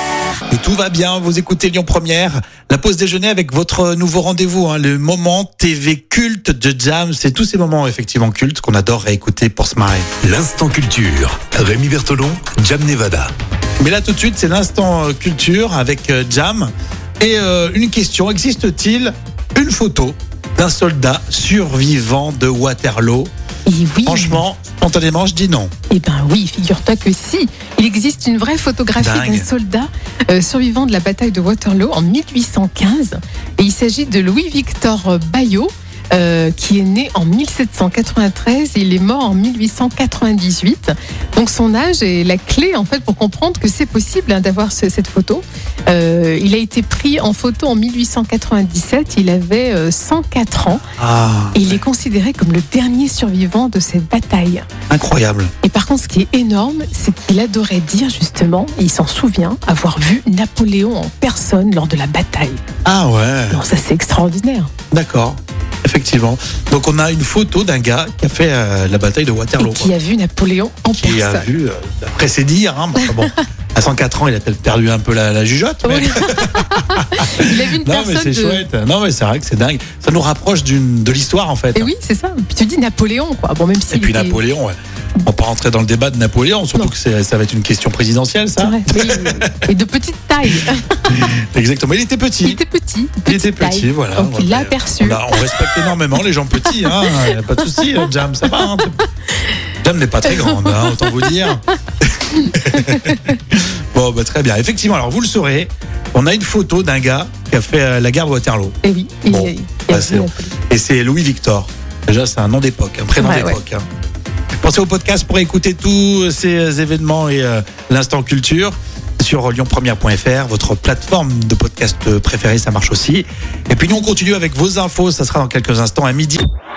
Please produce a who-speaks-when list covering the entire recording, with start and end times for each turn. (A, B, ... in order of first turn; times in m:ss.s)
0:00.5-0:10.1 A
0:10.2-0:13.3 B
0:13.8-0:23.3 A
0:23.6-0:24.4 C
0:24.0-0:25.7 A
0:25.9-0:50.8 C
0:29.0-0:29.5 A
0:50.9-0:51.8 A
0:51.5-0:54.6 C
0:54.9-0:55.5 A
0:55.6-1:02.6 C
1:02.8-1:03.6 A
1:03.5-1:04.7 C
1:04.9-1:09.9 A
1:09.6-1:11.4 C
1:11.0-1:21.9 A
1:13.0-1:13.4 C
1:15.8-1:18.6 C
1:21.7-1:24.4 C
1:23.9-1:29.5 A
1:28.6-1:30.9 C
1:31.1-1:32.6 A
1:32.4-1:35.8 C
1:33.2-1:39.0 A
1:36.7-1:37.9 C
1:39.8-1:48.8 A
1:40.3-1:41.2 C
1:42.7-1:43.2 C
1:48.8-1:50.5 C
1:49.3-1:53.8 A
1:53.2-1:53.6 C
1:54.6-2:06.4 A